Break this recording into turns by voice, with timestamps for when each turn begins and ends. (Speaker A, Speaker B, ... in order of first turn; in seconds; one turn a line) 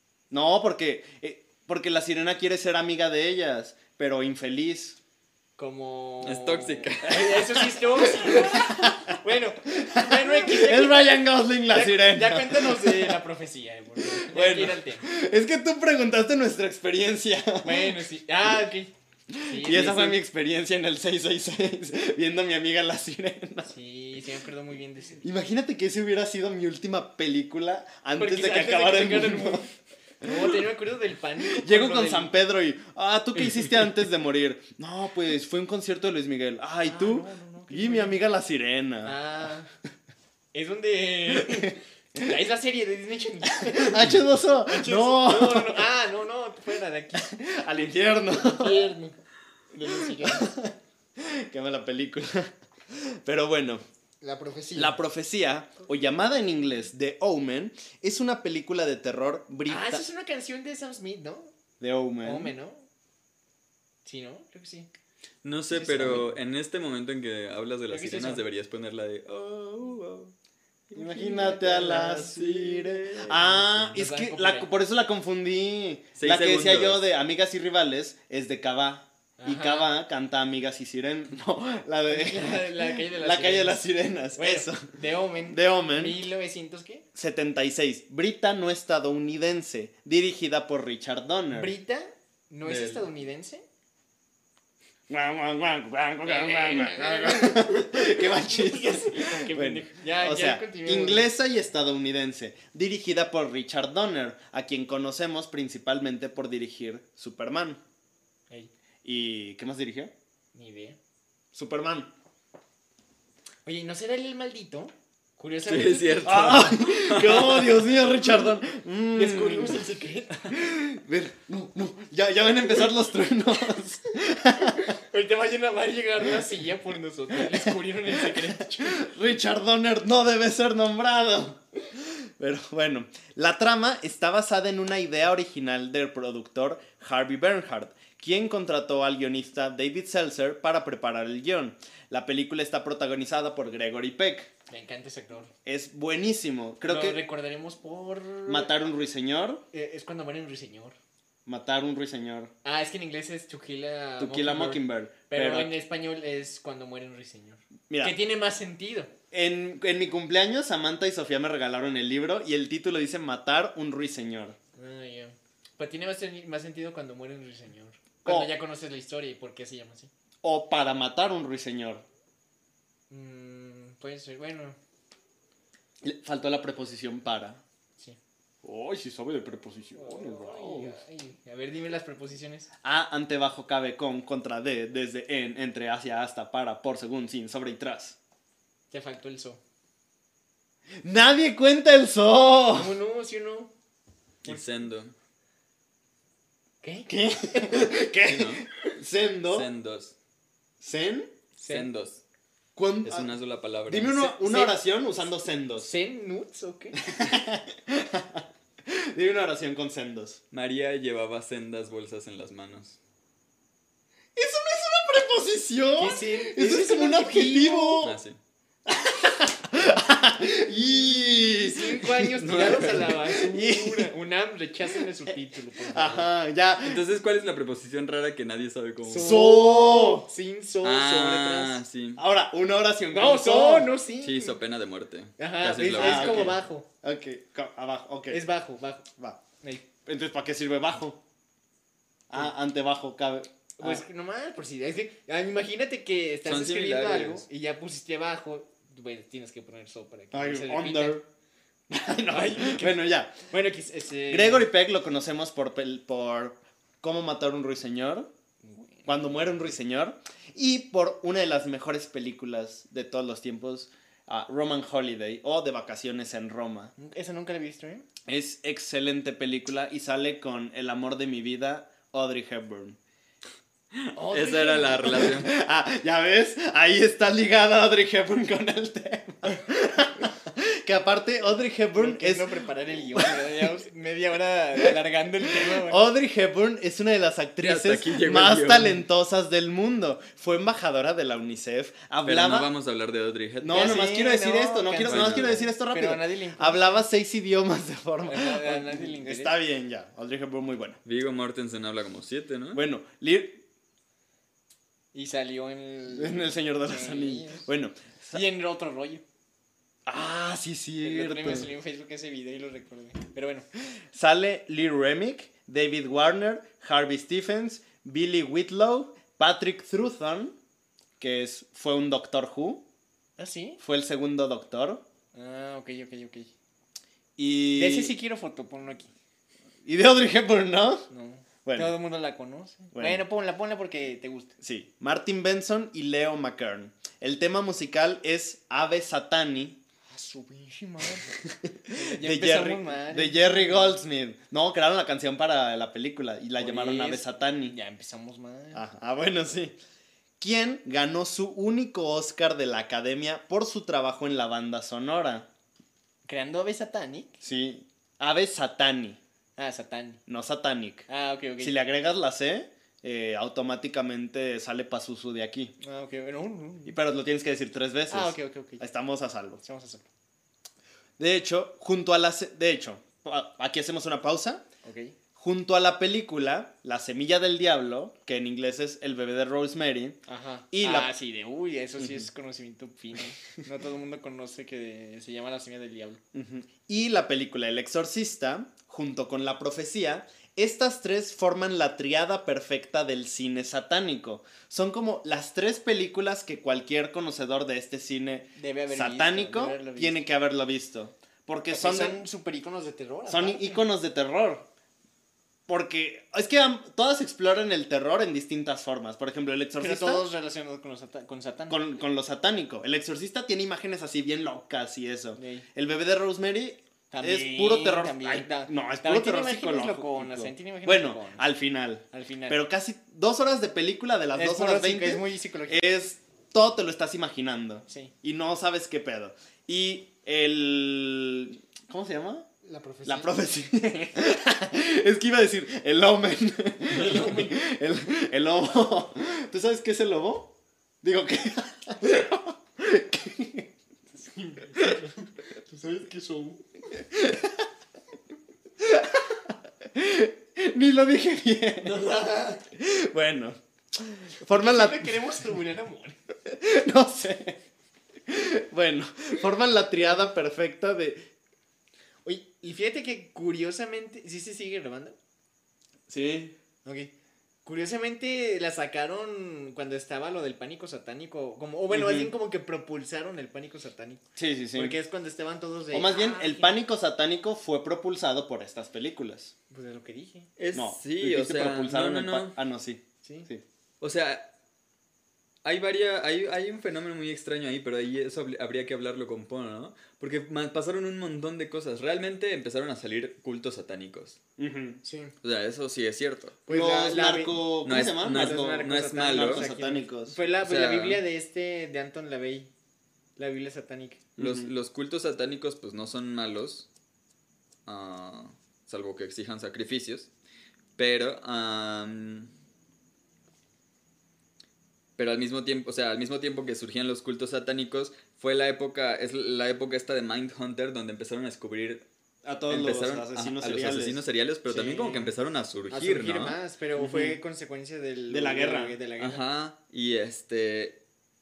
Speaker A: 0.3-5.0
Speaker B: 5.6-15.1
Speaker C: 6.2-7.6
Speaker A: 7.8-13.2
Speaker A: 14.0-18.0
Speaker B: 17.6-18.9
Speaker A: 19.3-23.7
Speaker B: 19.5-20.2
Speaker B: 23.6-25.2
Speaker A: 25.2-29.7
Speaker B: 28.2-32.3
Speaker A: 30.2-30.5
Speaker A: 31.5-39.1
Speaker B: 33.4-33.8
Speaker B: 36.8-38.2
Speaker B: 39.0-39.7
Speaker B: 40.5-44.1
Speaker A: 43.6-45.9
Speaker B: 44.7-47.4
Speaker A: 47.1-48.8
Speaker B: 48.3-49.1
Speaker B: 49.7-50.5
Speaker A: 49.8-53.8
Speaker B: 54.2-55.0
Speaker A: 54.7-60.0
Speaker B: 59.7-61.5
Speaker A: 61.8-62.5
Speaker B: 62.2-62.8
Speaker B: 64.0-64.9
Speaker C: 65.4-70.3
Speaker A: 65.7-66.2
Speaker B: 65.8-66.3
Speaker B: 67.9-68.4
Speaker C: 70.9-73.9
Speaker A: 70.9-84.9
Speaker B: 73.3-74.7
Speaker C: 76.2-77.0
Speaker B: 79.4-79.9
Speaker B: 82.1-83.8
Speaker B: 84.3-87.0
Speaker A: 85.5-86.2
Speaker A: 87.1-91.7
Speaker B: 91.5-93.6
Speaker C: 92.6-93.1
Speaker A: 95.1-107.8
Speaker B: 96.2-101.3
Speaker A: 109.0-110.1
Speaker B: 110.5-111.0
Speaker A: 111.5-112.1
Speaker B: 113.6-116.6
Speaker C: 115.7-118.1
Speaker A: 116.2-119.8
Speaker B: 119.1-120.5
Speaker A: 120.5-124.9
Speaker B: 124.6-129.0
Speaker A: 127.5-144.5
Speaker B: 144.7-145.5
Speaker A: 145.7-147.2
Speaker B: 146.8-148.8
Speaker A: 148.5-149.6
Speaker B: 149.7-150.9
Speaker A: 151.5-152.5
Speaker B: 152.6-159.1
Speaker A: 154.2-155.7
Speaker A: 157.9-158.1
Speaker A: 159.3-164.6
Speaker B: 164.8-170.1
Speaker A: 168.2-168.5
Speaker A: 170.4-172.0
Speaker B: 173.1-174.8
Speaker A: 176.0-177.6
Speaker A: 178.6-180.9
Speaker B: 179.9-182.7
Speaker A: 182.8-188.2
Speaker B: 188.9-189.6
Speaker A: 191.0-192.9
Speaker B: 192.7-193.7
Speaker C: 194.4-195.1
Speaker B: 196.8-197.9
Speaker A: 197.1-199.7
Speaker C: 198.2-198.6
Speaker C: 199.5-200.1
Speaker A: 200.8-201.3
Speaker B: 201.6-201.9
Speaker C: 201.7-202.2
Speaker A: 202.8-203.3
Speaker C: 203.0-204.1
Speaker A: 203.9-205.9
Speaker B: 204.1-204.8
Speaker B: 205.8-207.2
Speaker A: 207.0-210.4
Speaker C: 210.5-213.0
Speaker A: 214.3-218.1
Speaker B: 216.0-218.1
Speaker C: 218.0-218.4
Speaker A: 218.9-224.1
Speaker B: 221.5-226.3
Speaker C: 222.4-223.2
Speaker A: 225.8-227.0
Speaker C: 226.8-229.5
Speaker B: 229.0-231.8
Speaker A: 229.2-230.2
Speaker C: 230.8-232.2
Speaker A: 232.2-233.9
Speaker B: 233.1-234.6
Speaker C: 234.2-236.6
Speaker B: 235.4-236.9
Speaker A: 236.0-238.4
Speaker B: 238.3-239.1
Speaker A: 240.1-241.2
Speaker A: 242.3-244.0
Speaker B: 243.8-251.2
Speaker C: 246.4-247.4
Speaker A: 250.3-251.2
Speaker A: 251.9-253.4
Speaker B: 252.3-254.7
Speaker A: 254.3-258.3
Speaker B: 258.6-259.5
Speaker A: 259.1-266.9
Speaker B: 267.0-268.1
Speaker A: 268.3-273.0
Speaker C: 273.9-275.5
Speaker B: 274.1-275.4
Speaker A: 275.1-282.5
Speaker B: 281.9-286.0
Speaker A: 285.8-292.7
Speaker C: 287.6-289.0
Speaker C: 292.2-294.0
Speaker A: 293.6-301.0
Speaker B: 293.7-297.1
Speaker C: 295.0-295.6
Speaker B: 298.3-299.6
Speaker C: 301.0-302.8
Speaker A: 302.7-303.6
Speaker B: 305.1-307.7
Speaker A: 306.1-308.4
Speaker B: 308.3-309.2
Speaker A: 310.1-311.7
Speaker B: 311.0-313.6
Speaker A: 314.1-320.5
Speaker A: 321.2-322.8
Speaker B: 323.4-323.8
Speaker A: 323.8-325.0
Speaker B: 325.3-326.5
Speaker A: 327.4-328.1
Speaker B: 327.7-329.1
Speaker A: 329.9-331.1
Speaker B: 331.1-334.5
Speaker A: 331.6-331.9
Speaker A: 332.9-333.2
Speaker A: 334.6-339.8
Speaker B: 340.1-341.3
Speaker A: 341.4-347.8
Speaker B: 341.9-344.0
Speaker B: 346.6-348.8
Speaker A: 348.7-349.8
Speaker A: 350.4-355.4
Speaker B: 356.2-357.4
Speaker A: 357.4-359.2
Speaker B: 359.6-360.2
Speaker A: 360.3-361.1
Speaker B: 361.1-361.7
Speaker A: 361.6-365.7
Speaker B: 365.8-366.9
Speaker A: 366.9-369.6
Speaker B: 368.1-368.8
Speaker B: 369.6-370.1
Speaker A: 371.2-374.6
Speaker B: 374.8-375.1
Speaker A: 375.4-380.2
Speaker B: 380.3-386.2
Speaker A: 380.7-381.1
Speaker A: 382.0-382.3
Speaker A: 386.3-402.2
Speaker B: 398.6-400.2
Speaker B: 401.7-403.8
Speaker A: 403.3-404.6
Speaker A: 405.7-410.3
Speaker B: 409.8-411.8
Speaker A: 411.7-432.5
Speaker B: 415.4-415.6
Speaker B: 417.1-421.4
Speaker B: 422.1-422.6
Speaker B: 424.3-425.8
Speaker B: 427.9-428.1
Speaker B: 432.6-433.3
Speaker A: 433.0-440.5
Speaker B: 436.9-437.6
Speaker A: 441.0-443.7
Speaker B: 444.1-446.6
Speaker A: 447.0-447.7
Speaker A: 448.8-452.1
Speaker B: 451.8-452.6
Speaker A: 452.7-455.1
Speaker B: 454.5-456.2
Speaker A: 456.4-457.6
Speaker A: 458.3-461.2
Speaker B: 462.2-465.2
Speaker A: 466.1-466.5
Speaker B: 466.8-467.1
Speaker B: 467.6-474.2
Speaker A: 471.9-472.3
Speaker A: 474.4-474.9
Speaker B: 474.7-476.8
Speaker A: 475.9-479.5
Speaker B: 479.7-480.5
Speaker C: 480.6-482.6
Speaker A: 480.7-483.6
Speaker C: 484.0-484.4
Speaker C: 485.6-494.4
Speaker A: 494.6-495.0
Speaker B: 495.0-495.3
Speaker C: 495.4-496.6
Speaker B: 496.6-502.7
Speaker A: 496.7-500.4
Speaker C: 497.9-499.6
Speaker C: 500.6-501.2
Speaker B: 503.4-504.2
Speaker A: 504.4-504.7
Speaker C: 504.4-506.9
Speaker C: 507.9-510.3
Speaker C: 511.0-512.5
Speaker C: 515.2-522.0
Speaker A: 522.4-524.2
Speaker C: 522.7-526.6
Speaker B: 524.7-525.3
Speaker B: 525.9-529.4
Speaker A: 527.0-527.4
Speaker A: 528.3-529.0
Speaker C: 529.2-531.0